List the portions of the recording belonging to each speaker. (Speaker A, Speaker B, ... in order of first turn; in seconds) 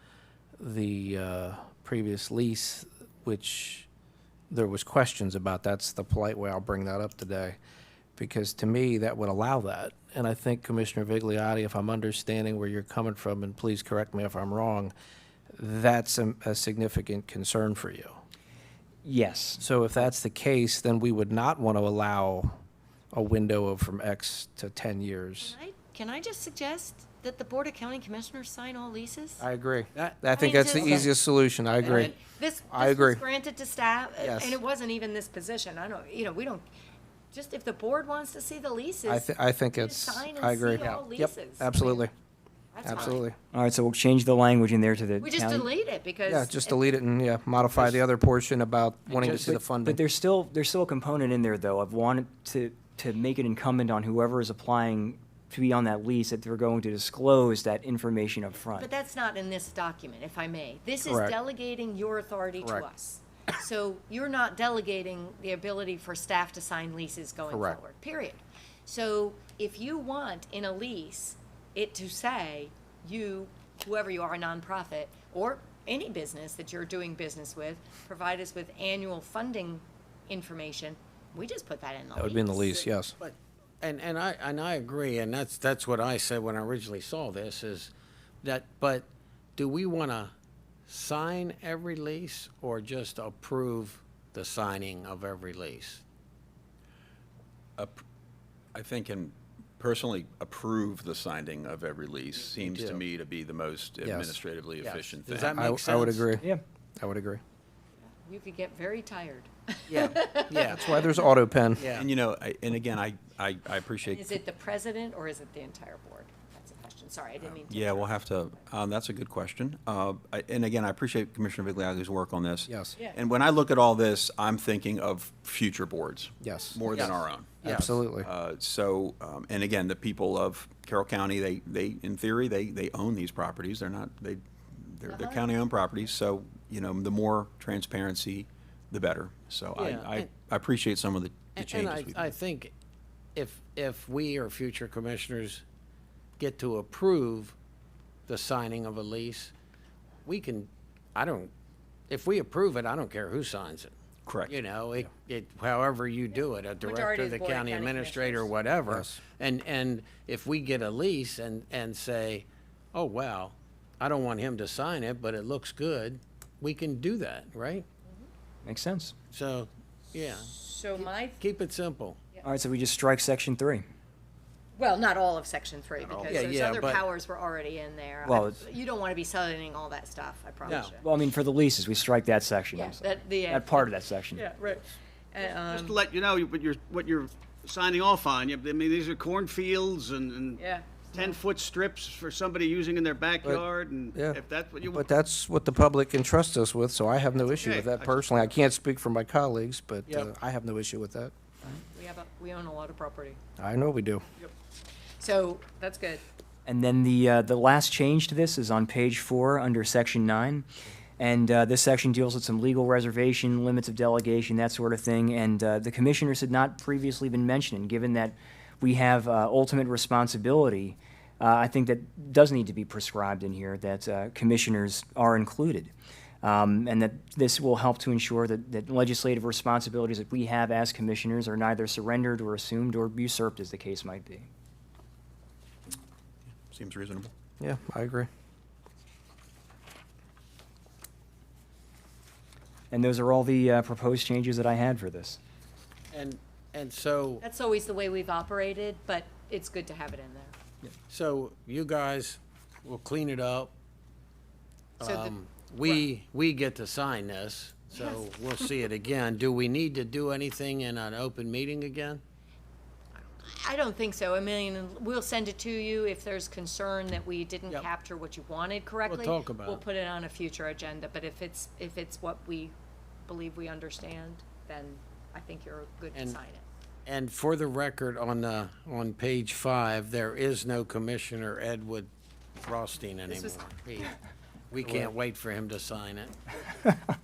Speaker A: 0.6-3.9, 4.5-7.6, 8.2-14.9, 15.6-18.2, 19.6-22.6, 23.1-25.6, 29.4-32.1, 32.7-33.2, 34.2-34.6, 39.1-42.1, 42.8-43.4, 46.3-50.0, 61.1-61.3, 67.5-67.8, 82.2-83.2, 104.0-104.4, 105.5-106.5, 107.0-107.4, 110.7-111.9, 122.7-123.0, 126.4-128.3, 158.9-159.2, 194.1-194.4, 194.9-201.3, 203.6-204.2, 237.6-238.3
Speaker B: 19.0-19.6, 43.5-45.7, 49.3-58.9, 168.6-169.2, 172.4-173.8, 178.2-178.6, 181.0-184.5, 206.7-210.7, 211.2-234.5, 242.9-245.4
Speaker C: 25.4-29.4, 30.3-31.1, 31.8-36.7, 37.3-42.1, 42.7-43.2, 45.2-46.8, 58.7-82.9, 108.0-111.2, 114.0-118.2, 135.1-135.5, 156.8-158.5, 170.6-171.4, 174.8-181.0, 182.7-186.0, 190.6-191.4, 201.9-203.4, 205.2-206.2, 247.4-250.6, 255.0-256.1, 263.4-272.7, 273.2-276.6, 283.3-284.1
Speaker D: 29.9-31.1, 31.9-32.1, 49.1-49.6, 83.2-87.9, 88.4-90.3, 90.9-96.0, 102.5-103.0, 104.8-106.3, 109.9-111.1, 111.8-112.1, 126.9-128.0, 139.8-140.3, 141.6-142.7, 143.4-145.6, 146.4-147.6, 148.3-149.5, 150.3-151.5, 152.1-153.9, 154.5-167.9, 169.3-172.2, 176.0-177.0, 180.7-181.0, 246.1-247.4, 251.1-253.7, 255.0-262.2, 269.1-269.8, 277.1-282.1, 282.6-284.2, 284.7-286.5
Speaker E: 97.8-98.0, 98.7-105.7, 111.8-114.4, 117.7-142.3, 154.3-154.6, 236.7-237.3
Speaker F: 185.4-195.1, 197.5-198.6